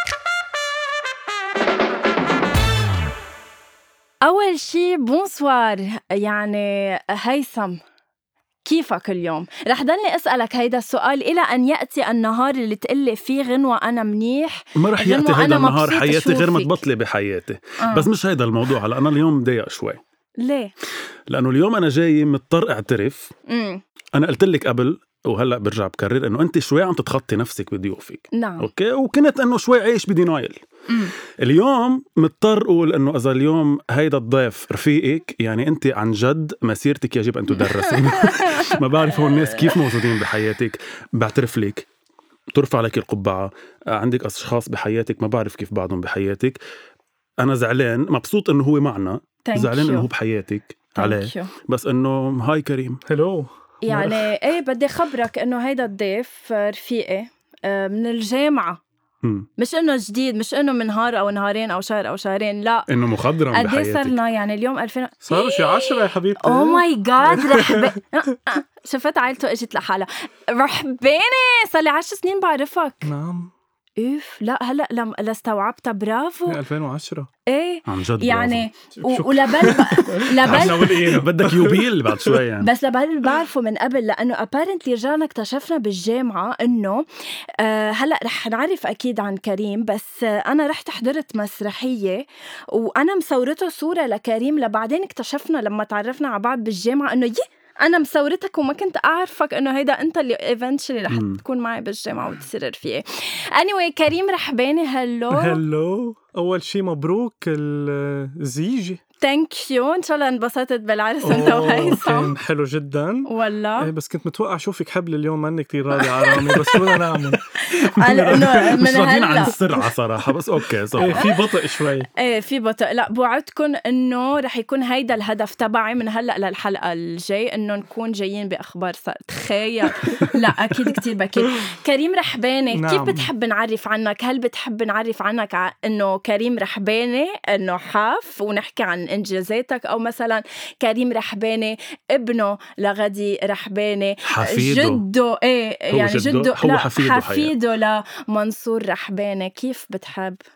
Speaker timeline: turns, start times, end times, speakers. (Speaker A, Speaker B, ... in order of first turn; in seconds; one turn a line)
Speaker A: 4.2-7.8
Speaker A: 8.6-16.8
Speaker B: 14.8-20.0
Speaker A: 17.8-18.1
Speaker A: 20.4-20.7
Speaker B: 21.3-23.3
Speaker A: 23.5-23.8
Speaker B: 24.1-30.6
Speaker A: 28.3-28.7
Speaker B: 31.3-41.9
Speaker A: 37.6-40.0
Speaker B: 42.5-46.6
Speaker B: 47.4-53.0
Speaker A: 49.5-50.1
Speaker A: 51.0-51.5
Speaker C: 53.1-54.3
Speaker A: 53.8-58.8
Speaker B: 59.2-59.5
Speaker A: 59.6-62.9
Speaker B: 62.9-64.2
Speaker A: 63.5-73.1
Speaker C: 65.2-68.0
Speaker C: 73.0-73.5
Speaker A: 74.0-76.6
Speaker C: 76.5-77.3
Speaker A: 77.5-81.0
Speaker B: 77.9-78.6
Speaker C: 79.0-82.4
Speaker B: 80.4-82.7
Speaker A: 82.6-87.0
Speaker A: 87.6-105.6
Speaker B: 101.1-101.4
Speaker C: 105.3-109.0
Speaker A: 109.2-112.3
Speaker C: 111.2-117.4
Speaker A: 113.2-113.9
Speaker A: 115.9-116.9
Speaker A: 117.5-119.5
Speaker B: 117.7-121.3
Speaker C: 120.9-122.1
Speaker A: 121.0-121.4
Speaker A: 122.2-150.4
Speaker C: 132.7-133.3
Speaker B: 144.2-145.0
Speaker B: 145.9-147.5